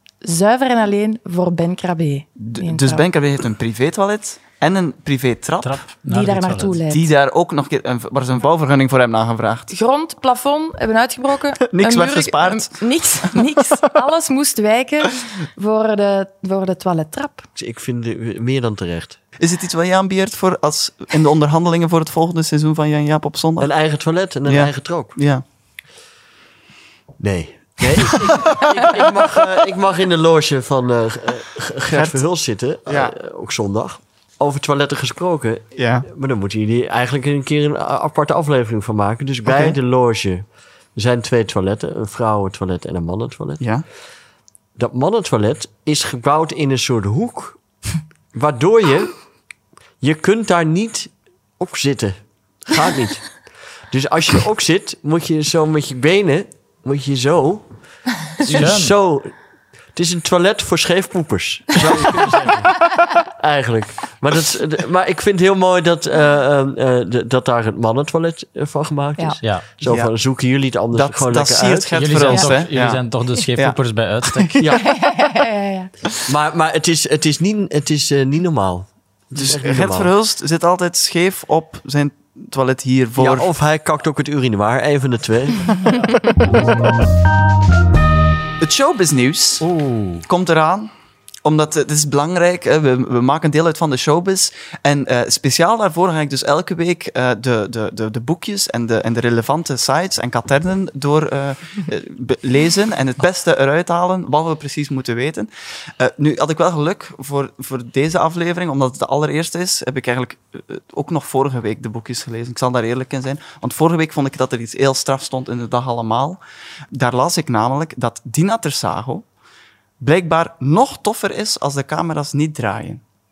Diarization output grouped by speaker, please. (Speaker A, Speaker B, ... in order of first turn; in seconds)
Speaker A: 0.2-3.0, 6.0-7.1, 9.7-17.5, 74.7-75.9
Speaker B: 2.4-5.8, 6.9-9.7, 11.7-12.8, 19.4-23.7, 24.5-25.4, 28.1-29.1, 31.9-32.2, 32.9-33.2, 35.8-36.1, 39.5-39.8, 69.8-70.1, 70.9-73.0, 74.3-74.8, 79.3-83.5, 88.6-89.7, 90.3-90.9, 91.4-116.4, 116.9-119.2, 120.0-123.0
Speaker C: 5.6-6.8, 58.5-58.9, 72.0-74.5
Speaker D: 17.6-19.2, 23.6-25.1, 27.2-43.6, 44.8-47.6, 48.3-49.1, 50.0-53.3, 53.9-57.7, 58.4-59.3, 60.0-72.1, 74.6-74.8, 76.3-80.1, 83.2-86.0